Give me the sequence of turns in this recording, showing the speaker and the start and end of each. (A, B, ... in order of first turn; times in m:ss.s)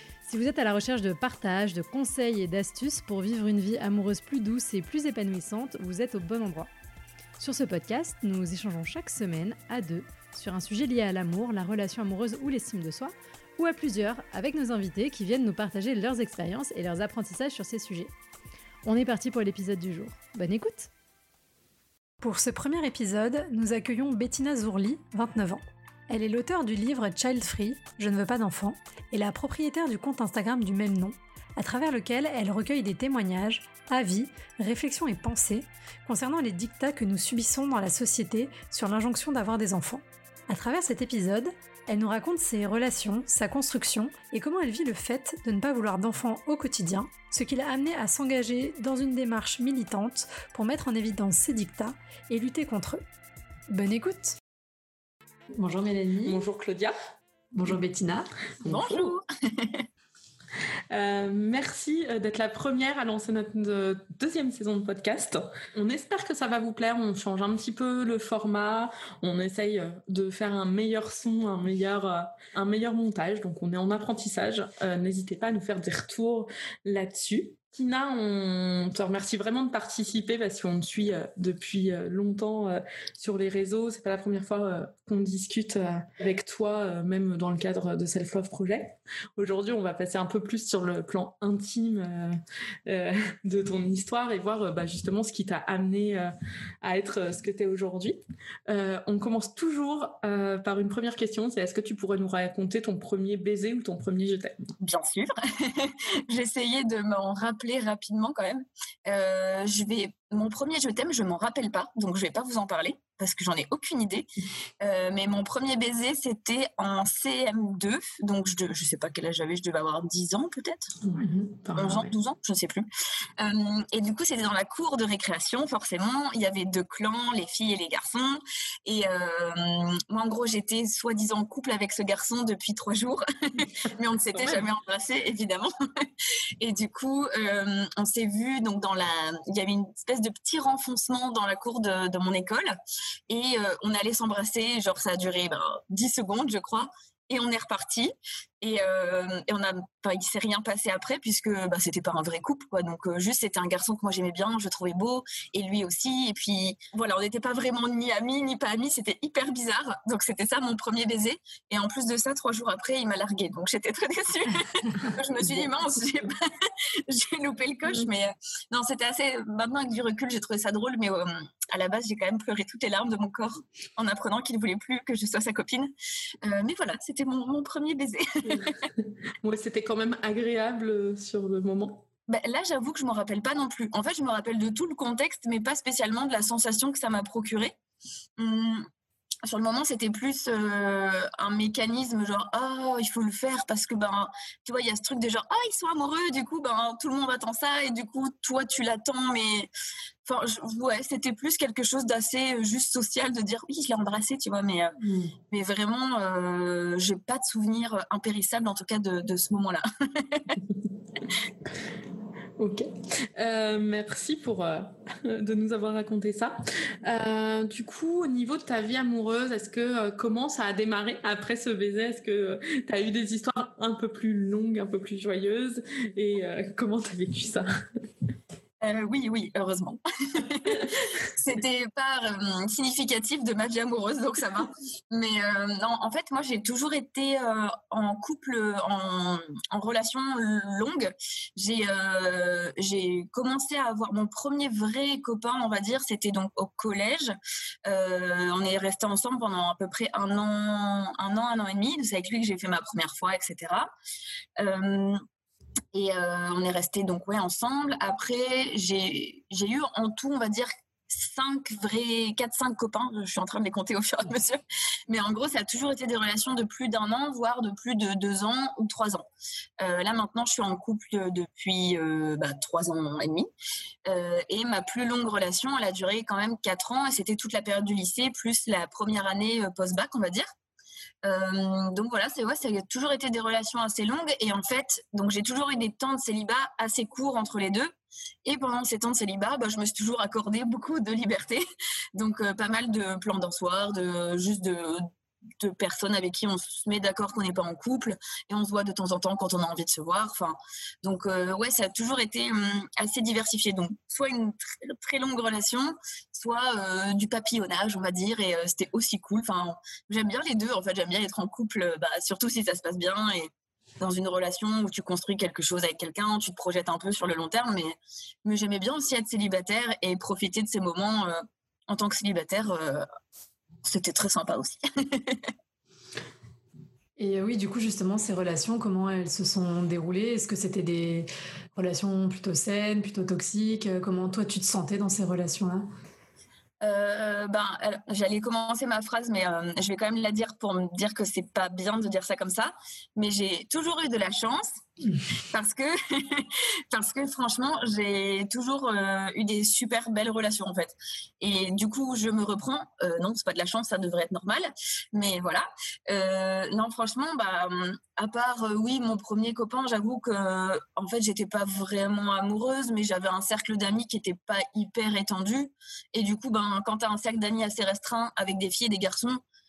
0:00.3-0:06.7 A
0:07.4-0:18.1 A
0:18.9-0:20.9 A
0:22.2-0:53.0 A
0:53.7-0:54.4 A
0:55.5-0:56.4 A
0:56.2-0:56.9 B
0:57.5-0:58.8 A
0:58.7-0:59.1 B
0:58.7-0:59.9 C
1:00.9-1:44.6 B
1:44.8-1:54.3 C
1:54.8-2:01.0 C
2:01.1-2:01.4 A
2:01.3-2:02.1 B
2:01.8-2:02.9 C
2:03.4-2:15.7 C
2:14.4-2:14.7 B
2:16.6-2:22.8 C
2:23.3-2:55.9 C
2:56.4-2:58.8 C
2:59.4-3:02.0 B
3:02.3-3:07.8 C
3:08.4-3:08.9 C
3:09.4-3:19.7 C
3:20.2-3:25.0 C
3:25.5-3:30.6 C
3:32.6-3:47.8 B
3:48.8-4:13.9 C
4:14.6-4:15.2 C
4:15.9-4:29.3 C
4:29.8-4:33.5 C
4:34.1-4:40.5 C
4:41.2-4:47.9 C
4:48.4-4:51.6 C
4:52.2-4:55.1 C
4:55.6-5:23.0 C
5:23.8-5:25.5 C
5:27.2-5:35.9 A
5:36.8-5:44.8 C
5:45.5-6:09.4 C